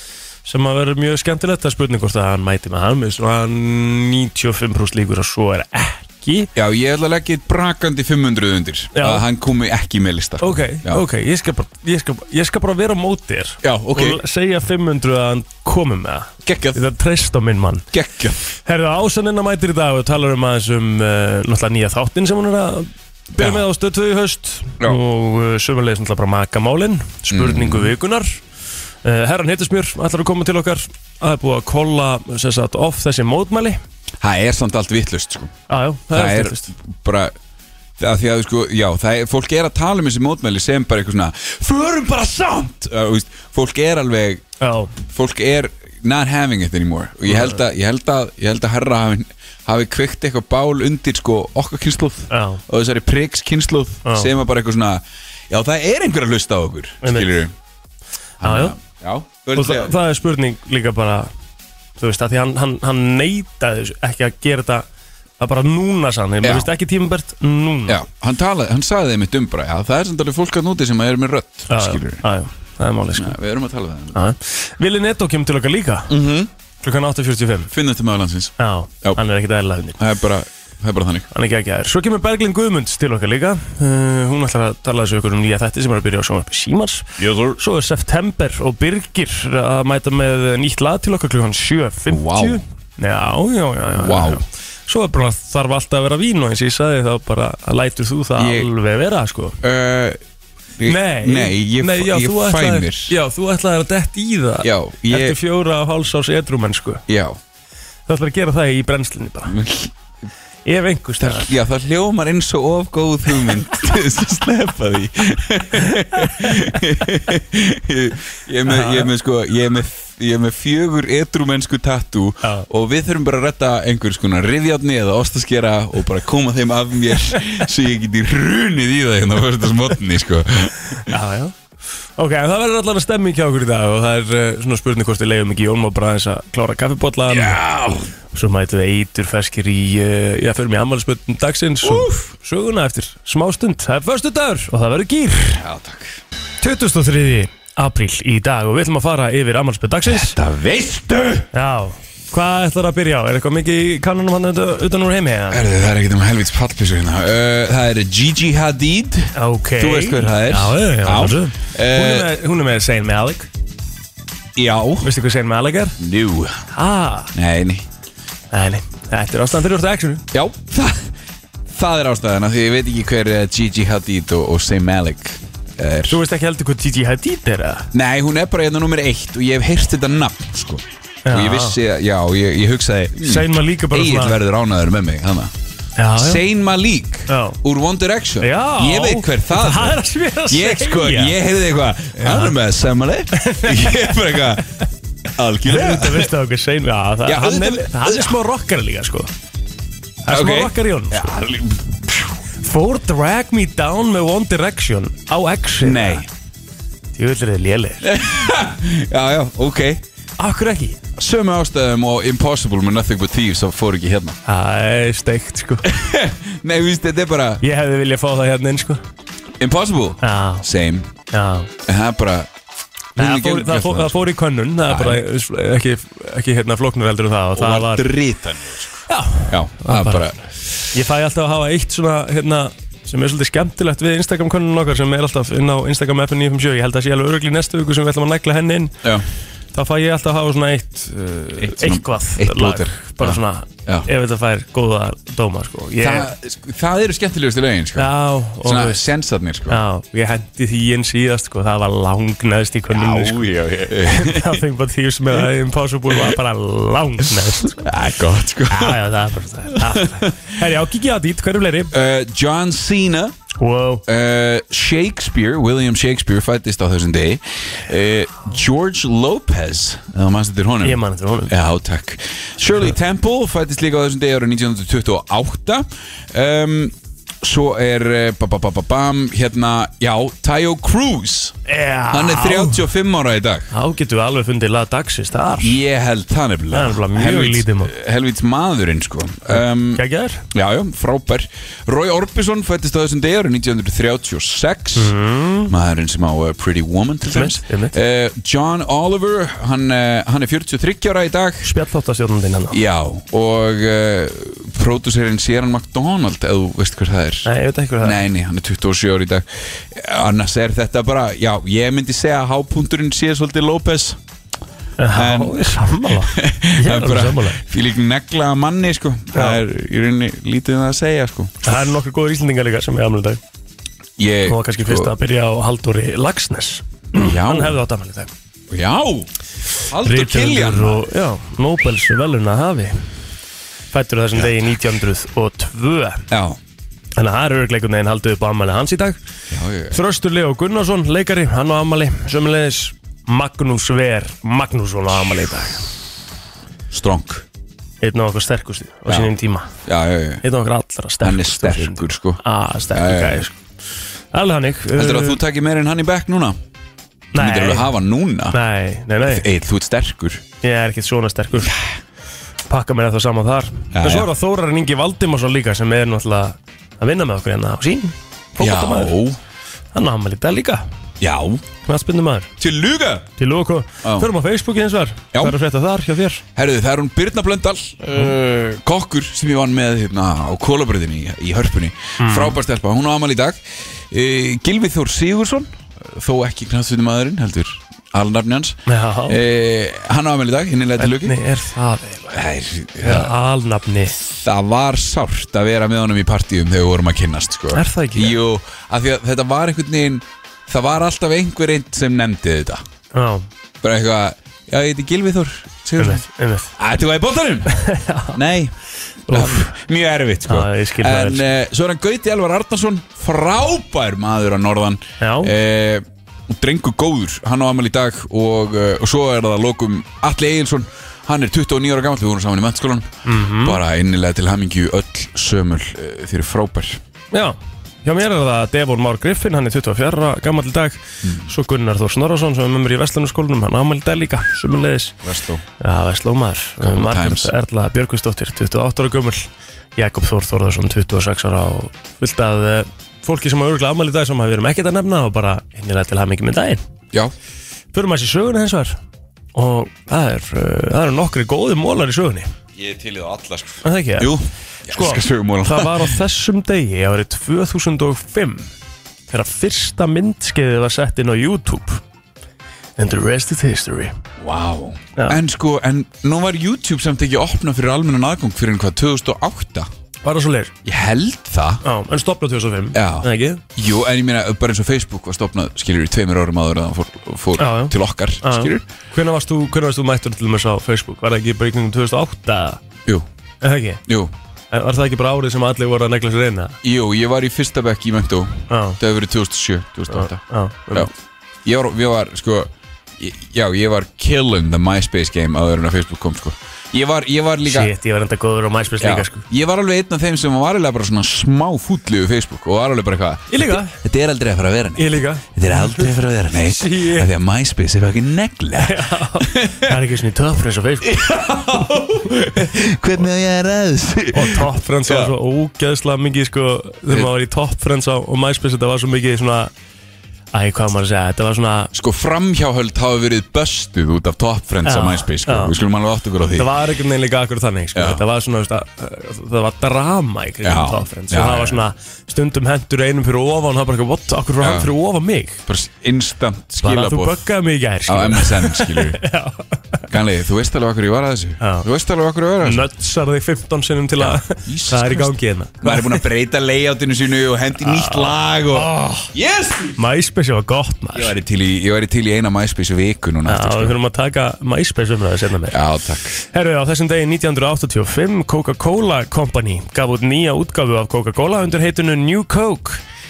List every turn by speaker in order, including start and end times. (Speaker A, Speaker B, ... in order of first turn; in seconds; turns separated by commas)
Speaker A: 0.5-6.5, Speaker B: 6.5-11.0, Speaker A: 8.9-9.2, Speaker A: 10.4-17.9, Speaker B: 13.6-14.2, Speaker B: 16.4-16.8, Speaker B: 17.9-18.6, Speaker A: 18.6-28.4, Speaker B: 23.3-23.6, Speaker B: 27.3-27.9, Speaker A: 29.0-33.8, Speaker B: 34.2-35.5, Speaker A: 35.7-36.7, Speaker B: 36.1-37.3, Speaker B: 38.0-44.4, Speaker A: 44.6-44.9, Speaker B: 45.0-57.5, Speaker A: 47.3-47.5, Speaker A: 52.3-52.6, Speaker A: 54.0-54.3, Speaker A: 57.0-57.3, Speaker B: 58.4-60.0, Speaker A: 58.4-58.7, Speaker A: 59.5-61.3, Speaker A: 62.0-64.9, Speaker A: 65.4-68.0, Speaker B: 66.4-66.7, Speaker B: 67.9-72.2, Speaker A: 71.7-73.4, Speaker B: 73.1-74.2, Speaker A: 74.1-76.1, Speaker B: 76.1-76.5, Speaker A: 76.8-77.7, Speaker B: 77.7-79.2, Speaker A: 78.6-80.0, Speaker B: 80.0-81.3, Speaker A: 81.3-99.6, Speaker B: 87.2-87.6, Speaker B: 92.1-92.6, Speaker B: 94.0-94.4, Speaker B: 98.4-98.7, Speaker B: 99.6-100.2, Speaker B: 100.8-103.1, Speaker A: 100.9-107.0, Speaker B: 104.6-105.4, Speaker B: 107.1-107.4, Speaker A: 108.1-109.6, Speaker B: 109.5-109.9, Speaker A: 110.7-111.5, Speaker B: 111.2-131.1, Speaker A: 118.7-119.1, Speaker A: 131.1-131.5, Speaker A: 132.2-137.6, Speaker B: 137.2-138.1, Speaker A: 138.3-145.6, Speaker B: 141.8-142.2, Speaker B: 145.6-146.2, Speaker A: 146.6-150.3, Speaker B: 150.0-151.5, Speaker A: 151.5-155.6, Speaker B: 155.5-162.3, Speaker A: 159.3-163.5, Speaker B: 164.6-165.1, Speaker A: 165.0-165.9, Speaker B: 166.0-166.6, Speaker A: 166.7-167.3, Speaker B: 167.3-167.8, Speaker A: 168.5-170.2, Speaker B: 170.3-171.1, Speaker B: 171.7-176.2, Speaker A: 176.1-177.9, Speaker B: 177.9-185.5, Speaker A: 181.2-181.8, Speaker A: 183.2-184.4, Speaker A: 186.0-186.4, Speaker B: 186.2-194.7, Speaker A: 187.3-187.6, Speaker A: 188.4-191.3, Speaker A: 192.2-192.5, Speaker A: 193.3-194.4, Speaker B: 195.3-196.3, Speaker A: 195.6-199.3, Speaker B: 197.2-198.4, Speaker A: 200.2-201.3, Speaker B: 200.3-202.3, Speaker A: 202.6-206.2, Speaker B: 205.8-206.3, Speaker A: 207.2-208.1, Speaker B: 208.0-210.0, Speaker A: 210.4-211.0, Speaker B: 211.2-214.4, Speaker A: 214.4-215.9, Speaker B: 215.8-217.6, Speaker A: 217.6-219.0, Speaker B: 219.6-221.1, Speaker A: 220.2-220.6, Speaker A: 221.3-221.7, Speaker B: 221.8-222.5, Speaker B: 223.2-224.2, Speaker A: 223.2-228.1, Speaker B: 224.9-225.2, Speaker B: 227.5-230.5, Speaker A: 229.1-230.2, Speaker A: 230.9-238.9, Speaker A: 239.7-246.3, Speaker B: 241.6-244.1, Speaker B: 246.0-248.1, Speaker A: 247.9-249.0, Speaker B: 248.6-249.8, Speaker A: 249.7-253.5, Speaker B: 252.9-254.6, Speaker A: 254.1-257.9, Speaker B: 257.8-259.0, Speaker A: 258.7-261.9, Speaker B: 259.7-260.5, Speaker B: 261.9-263.3, Speaker A: 263.6-264.0, Speaker B: 264.1-281.6, Speaker A: 270.8-271.5, Speaker A: 281.7-282.9, Speaker B: 282.1-283.7, Speaker A: 283.7-285.8, Speaker B: 285.6-295.1, Speaker A: 286.7-287.9, Speaker A: 289.5-290.4, Speaker A: 294.9-295.7, Speaker B: 295.7-301.7, Speaker A: 297.3-297.9, Speaker A: 301.6-302.8, Speaker B: 302.7-307.5, Speaker A: 307.4-308.2, Speaker B: 308.0-314.2, Speaker A: 315.0-317.6, Speaker B: 315.1-321.5, Speaker A: 319.3-319.6, Speaker A: 321.6-323.4, Speaker B: 324.2-325.1, Speaker A: 324.5-328.3, Speaker B: 327.1-327.8, Speaker B: 328.7-329.3, Speaker B: 329.9-331.0, Speaker A: 330.0-333.0, Speaker A: 333.9-336.2, Speaker B: 336.3-336.6, Speaker A: 337.2-339.2, Speaker B: 339.5-340.0, Speaker A: 339.9-345.9, Speaker B: 346.9-347.4, Speaker A: 348.0-349.7, Speaker B: 349.1-349.3, Speaker B: 349.9-350.4, Speaker A: 350.4-353.5, Speaker B: 351.2-352.4, Speaker B: 352.9-353.5, Speaker A: 354.3-355.4, Speaker B: 354.9-356.6, Speaker A: 357.3-357.9, Speaker B: 357.3-358.6, Speaker A: 358.5-359.4, Speaker B: 359.2-360.4, Speaker A: 360.6-361.7, Speaker B: 361.6-361.9, Speaker A: 362.7-369.1, Speaker B: 363.9-364.3, Speaker B: 368.6-369.4, Speaker A: 369.9-370.9, Speaker B: 371.2-371.6, Speaker A: 371.8-372.5, Speaker B: 372.6-373.3, Speaker A: 373.4-376.4, Speaker B: 374.0-374.3, Speaker B: 376.6-391.4, Speaker A: 382.2-382.6, Speaker A: 388.9-389.4, Speaker A: 391.0-392.4, Speaker B: 392.3-393.3, Speaker A: 393.0-394.1, Speaker B: 394.3-402.8, Speaker A: 397.7-398.4, Speaker A: 403.1-403.5, Speaker B: 403.8-406.2, Speaker A: 406.0-406.7, Speaker B: 406.8-407.8, Speaker A: 407.7-408.4, Speaker B: 408.3-408.7, Speaker A: 409.3-409.8, Speaker B: 409.3-427.0, Speaker A: 410.5-411.4, Speaker A: 415.2-415.5, Speaker A: 423.2-423.8, Speaker A: 427.3-435.1, Speaker B: 435.2-435.6, Speaker A: 435.8-439.4, Speaker B: 436.8-437.5, Speaker A: 440.0-446.8, Speaker A: 447.9-449.0, Speaker A: 449.5-452.5, Speaker B: 452.8-456.1, Speaker A: 453.8-454.3, Speaker A: 454.9-458.7, Speaker A: 459.3-462.0, Speaker A: 463.0-464.1, Speaker B: 464.4-469.9, Speaker A: 470.2-470.7, Speaker B: 470.9-471.8, Speaker A: 471.8-473.6, Speaker B: 472.9-478.9, Speaker A: 477.6-482.8, Speaker A: 483.6-484.0, Speaker B: 484.1-484.3, Speaker A: 484.7-486.8, Speaker B: 486.8-491.1, Speaker A: 488.7-489.0, Speaker A: 490.1-491.1, Speaker B: 491.6-497.9, Speaker A: 497.6-499.4, Speaker B: 499.0-509.9, Speaker A: 503.5-504.0, Speaker A: 505.0-506.1, Speaker A: 506.7-507.3, Speaker A: 508.8-511.3, Speaker B: 511.0-515.3, Speaker A: 514.3-519.7, Speaker A: 520.5-521.9, Speaker B: 521.9-526.7, Speaker A: 524.8-525.8, Speaker A: 526.6-535.6, Speaker B: 527.9-528.2, Speaker B: 530.6-531.8, Speaker B: 534.6-534.9, Speaker B: 535.7-537.5, Speaker A: 536.8-540.0, Speaker B: 538.0-539.2, Speaker B: 540.1-542.9, Speaker A: 541.6-541.9, Speaker A: 542.6-546.2, Speaker B: 544.2-550.0, Speaker A: 547.8-549.2, Speaker A: 550.0-551.3, Speaker B: 551.1-554.0, Speaker A: 553.5-555.8, Speaker B: 555.7-556.4, Speaker A: 556.5-563.0